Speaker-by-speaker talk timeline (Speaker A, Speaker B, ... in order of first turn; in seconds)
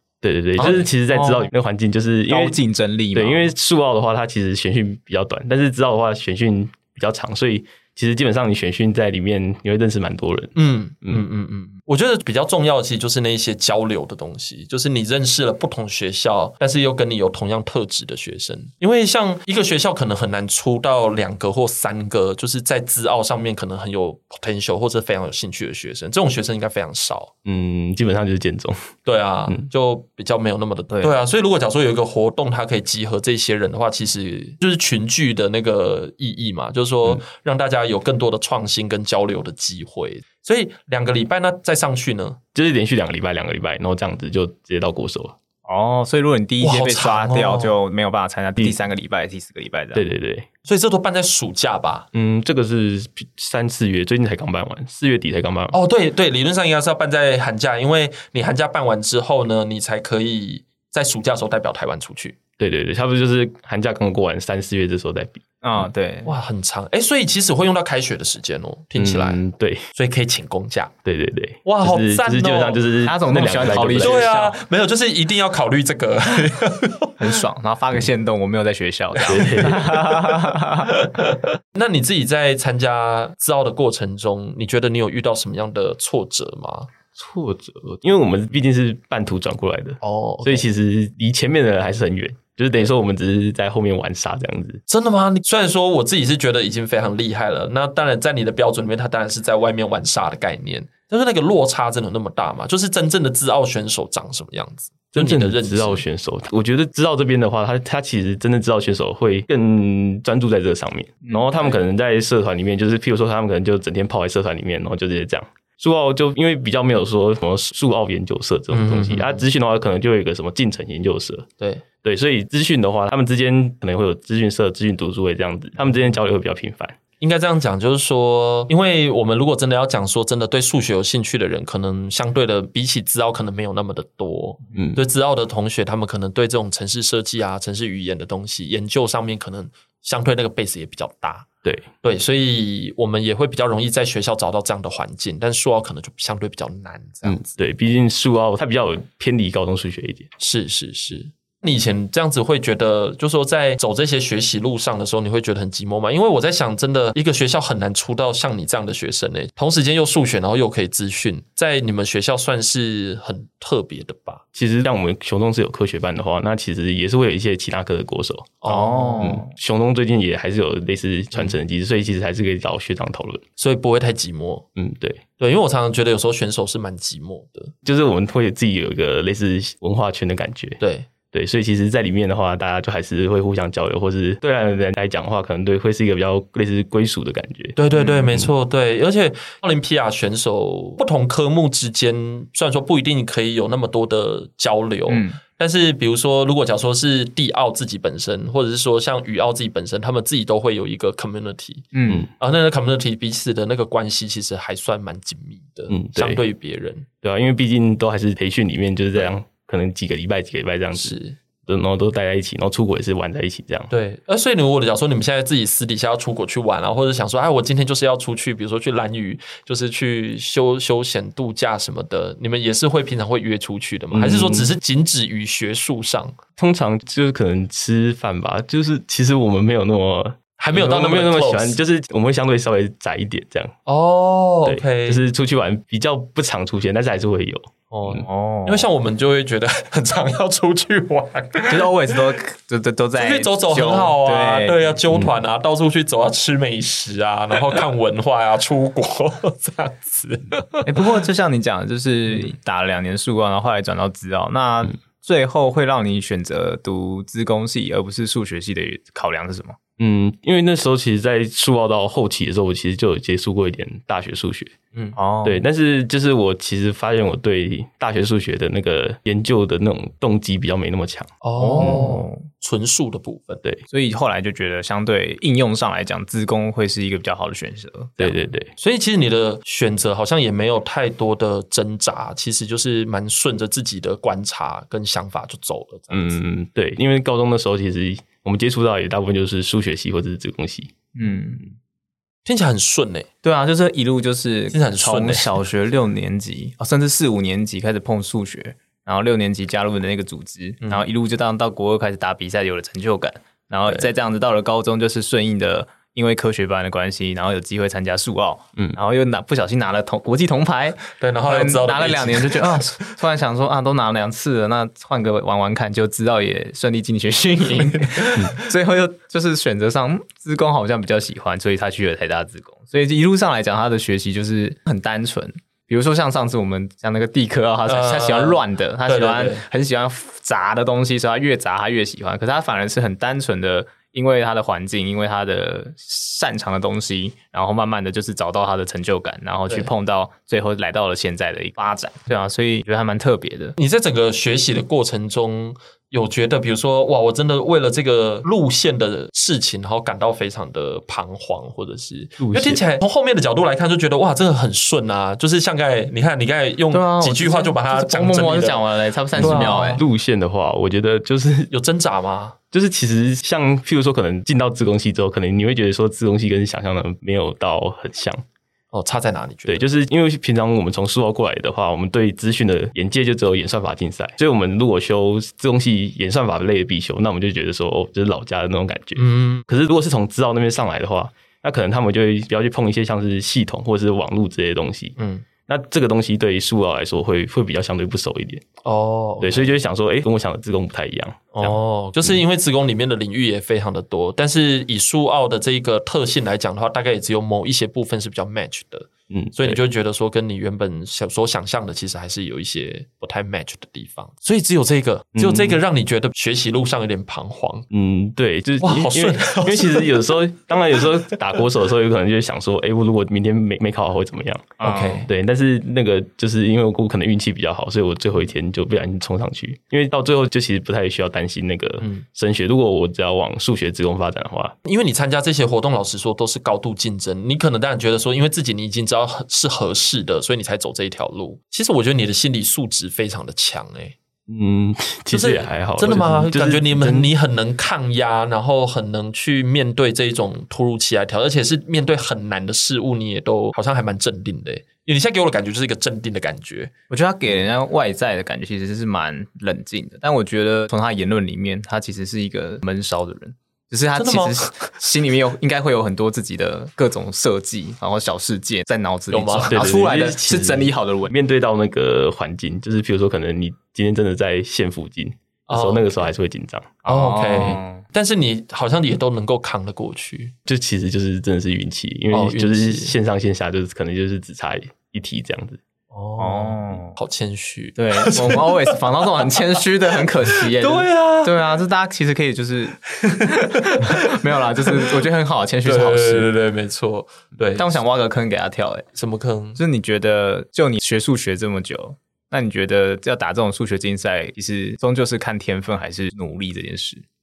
Speaker A: 0.2-2.6, 3.1-11.2, 27.4-28.9, 42.5-45.4, 49.9-50.5, 52.1-55.8, 62.6-65.9, 69.0-69.8, 71.0-74.3, 79.3-79.9, 87.2-94.8, 105.1-121.5, 122.0-127.0, 134.7-135.0, 147.2-150.3, 164.6-168.6, 169.2-173.4, 174.8-175.2, 177.8-180.8, 181.3-188.5, 205.9-206.4, 207.2-211.1, 211.7-213.9, 224.1-224.7, 226.6-233.7, 234.7-238.2, 260.0-264.7, 265.4-272.0, 278.2-278.7, 286.1-290.9, 352.4-352.8, 359.4-361.7, 362.7-368.4, 369.7-385.1, 385.7-388.6, 389.4-392.4, 399.3-399.8, 405.4-405.8, 407.9-424.7, 434.5-437.3, 459.7-467.0, 470.7-475.8
Speaker B: 0.6-1.5, 2.3-3.5, 45.7-50.0, 65.6-66.3, 73.0-74.6, 77.2-81.0, 111.2-111.7, 168.7-169.5, 195.1-195.4, 201.9-202.3, 238.2-238.9, 241.7-244.9, 250.8-259.8, 265.2-265.6, 271.6-272.4, 273.9-278.3, 291.2-291.6, 293.4-343.8, 356.9-360.0, 414.8-415.3, 447.1-461.3, 467.1-468.0, 476.4-477.2, 478.0-486.5, 487.8-489.1, 489.8-497.2
Speaker C: 10.6-27.3, 29.1-42.4, 46.6-47.8, 50.6-52.1, 55.7-62.4, 66.2-69.4, 69.9-70.9, 71.6-72.8, 73.9-77.4, 79.1-86.9, 90.0-90.7, 94.9-106.0, 118.7-119.4, 127.2-141.5, 142.0-147.5, 150.4-164.4, 168.6-169.4, 173.6-174.7, 175.4-177.7, 180.8-181.1, 187.8-207.1, 210.9-211.4, 213.9-226.4, 230.6-231.8, 233.9-235.2, 237.9-242.3, 243.2-251.1, 271.4-273.6, 278.8-286.4, 292.4-293.3, 294.7-295.5, 311.2-313.2, 327.9-329.6, 343.8-358.8, 359.4-360.0, 361.7-362.6, 368.9-369.9, 379.2-379.7, 385.2-385.4, 388.8-389.7, 391.5-407.9, 408.8-410.3, 414.8-415.3, 422.0-422.2, 424.8-434.2, 435.3-446.9, 454.1-454.7, 459.3-459.8, 465.7-466.3, 467.1-470.5, 472.3-473.1, 476.1-481.7, 483.2-485.1, 485.9-488.0, 489.1-489.8